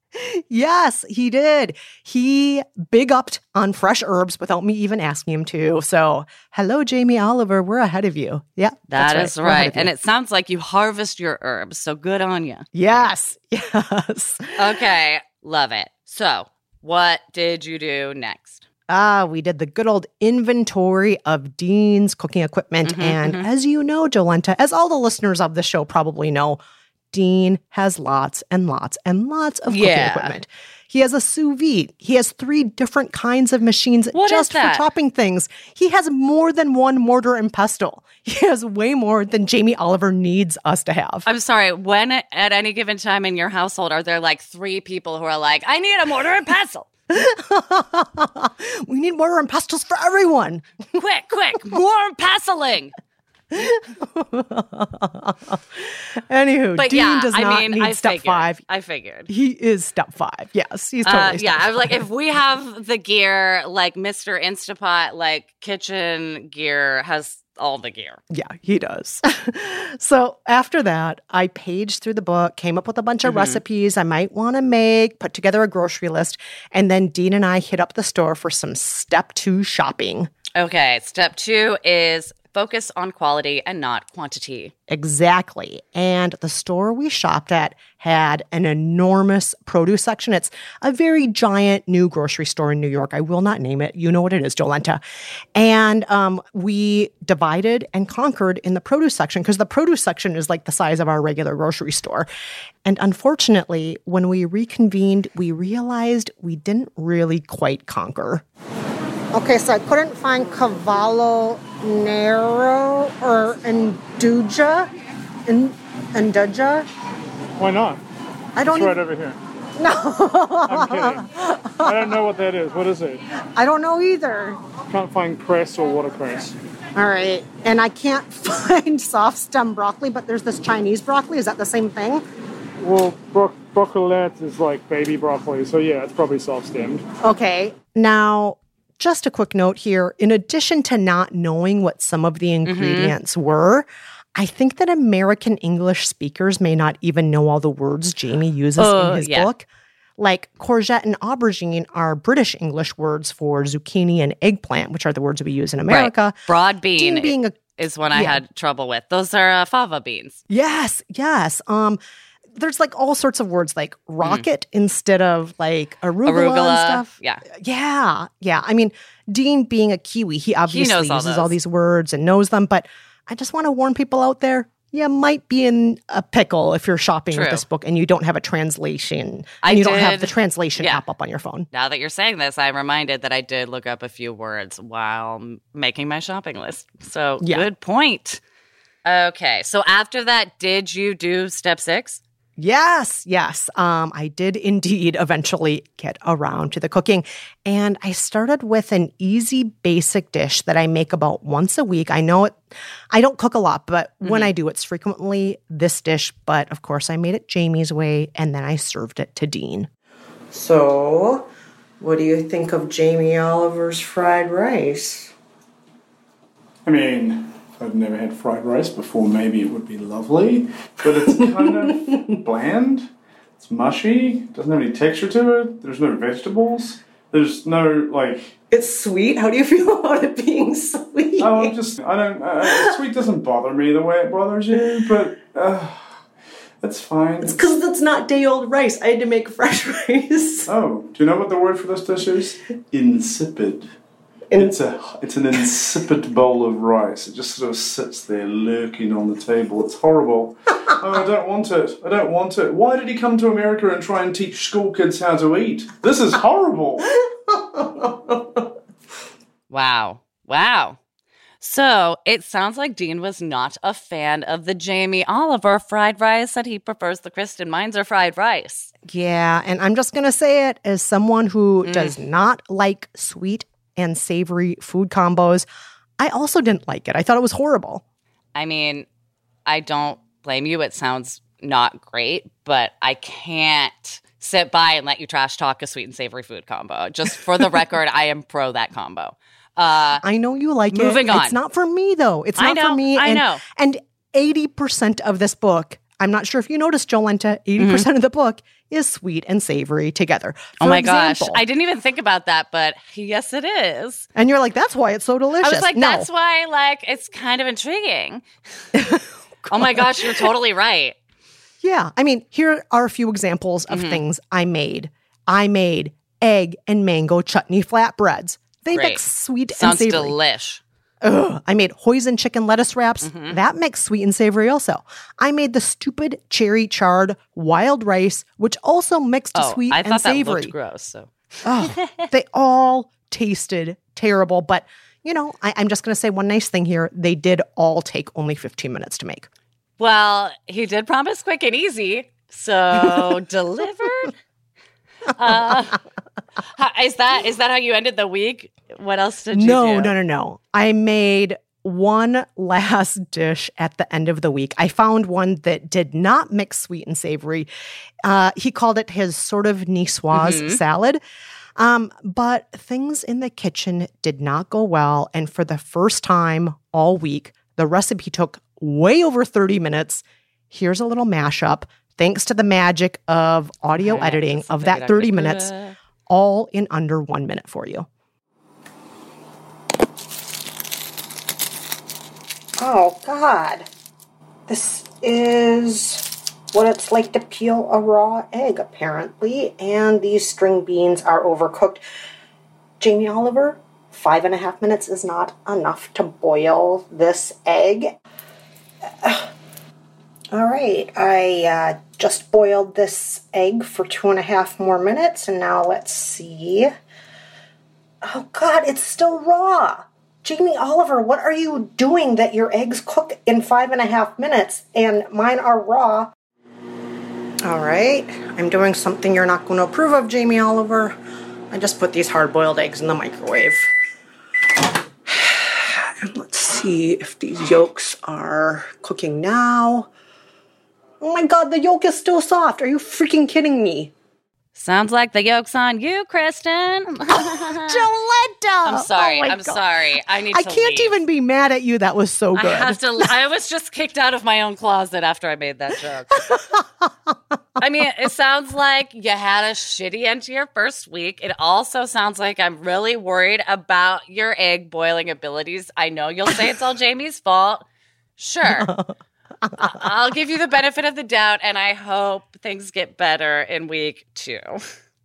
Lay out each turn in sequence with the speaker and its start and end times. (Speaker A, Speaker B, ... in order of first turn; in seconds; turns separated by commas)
Speaker A: 0.1-9.9, Speaker B: 8.9-12.7, Speaker A: 12.7-14.7, Speaker B: 14.6-18.7, Speaker A: 18.9-26.6, Speaker B: 22.9-23.5, Speaker A: 27.1-41.3, Speaker B: 29.7-30.4, Speaker B: 34.1-34.9, Speaker B: 41.3-46.9, Speaker A: 47.1-50.7, Speaker B: 51.0-52.9, Speaker A: 53.5-58.6, Speaker B: 56.8-59.3, Speaker A: 59.3-62.0, Speaker B: 61.0-68.2, Speaker A: 68.3-80.3, Speaker B: 73.2-73.6, Speaker B: 80.5-84.7, Speaker A: 84.9-95.0, Speaker A: 95.5-102.3, Speaker A: 102.8-108.5, Speaker A: 109.3-114.9, Speaker A: 115.5-116.9, Speaker C: 117.6-118.0, Speaker A: 118.6-119.0, Speaker C: 118.7-119.4, Speaker A: 119.8-122.2, Speaker C: 120.7-121.2, Speaker C: 121.8-123.2, Speaker A: 123.6-124.6, Speaker C: 124.9-126.5, Speaker A: 127.0-132.2, Speaker C: 132.8-137.0, Speaker A: 137.2-149.7, Speaker B: 142.7-143.2, Speaker B: 148.8-149.5, Speaker A: 150.2-156.4, Speaker B: 155.9-160.4, Speaker A: 157.0-157.6, Speaker A: 158.1-158.4, Speaker A: 160.5-162.0, Speaker A: 162.5-181.7, Speaker B: 166.2-167.4, Speaker B: 170.7-171.6, Speaker B: 177.3-177.7, Speaker B: 179.6-181.0, Speaker B: 181.7-188.4, Speaker A: 187.4-187.7, Speaker B: 189.1-192.2, Speaker A: 192.6-209.9, Speaker B: 204.2-204.5, Speaker A: 210.5-211.4, Speaker A: 212.0-215.3, Speaker C: 216.8-228.5, Speaker A: 221.1-222.4, Speaker A: 228.7-231.8, Speaker C: 231.4-236.2, Speaker A: 232.6-233.0, Speaker C: 236.8-237.6, Speaker A: 237.4-240.7, Speaker C: 240.7-243.9, Speaker C: 244.5-257.2, Speaker A: 257.1-258.7, Speaker B: 259.7-261.0, Speaker B: 261.6-268.9, Speaker A: 269.1-275.7, Speaker B: 271.8-272.2, Speaker A: 276.2-278.0, Speaker B: 278.6-279.1, Speaker B: 279.7-290.2, Speaker A: 290.2-301.6, Speaker B: 290.9-291.6, Speaker B: 292.6-293.6, Speaker B: 297.8-298.1, Speaker B: 300.8-304.3, Speaker A: 304.4-306.3, Speaker B: 305.6-308.4, Speaker A: 308.9-310.5, Speaker B: 309.7-311.2, Speaker A: 311.8-320.4, Speaker B: 313.9-314.2, Speaker B: 318.9-319.2, Speaker B: 319.7-320.8, Speaker A: 321.2-330.7, Speaker B: 323.2-323.6, Speaker B: 329.6-331.3, Speaker A: 331.6-339.5, Speaker B: 340.0-344.4, Speaker B: 345.3-346.0, Speaker B: 346.8-350.1, Speaker A: 349.5-357.7, Speaker A: 358.2-361.2, Speaker B: 360.3-360.8, Speaker A: 361.8-375.7, Speaker B: 374.0-376.0, Speaker A: 376.3-378.1, Speaker A: 382.8-383.9, Speaker A: 384.7-392.0, Speaker A: 393.0-398.1, Speaker A: 399.2-399.5, Speaker A: 400.5-406.9, Speaker A: 408.2-416.3, Speaker A: 417.6-421.1, Speaker A: 421.7-423.9, Speaker A: 425.3-430.1, Speaker A: 431.2-434.1, Speaker B: 434.8-438.1, Speaker A: 437.3-439.8, Speaker B: 438.9-441.2, Speaker A: 440.4-443.3, Speaker B: 442.6-446.5, Speaker A: 446.4-447.4, Speaker B: 447.8-457.9, Speaker B: 458.4-458.9, Speaker A: 458.7-460.0, Speaker B: 459.8-464.8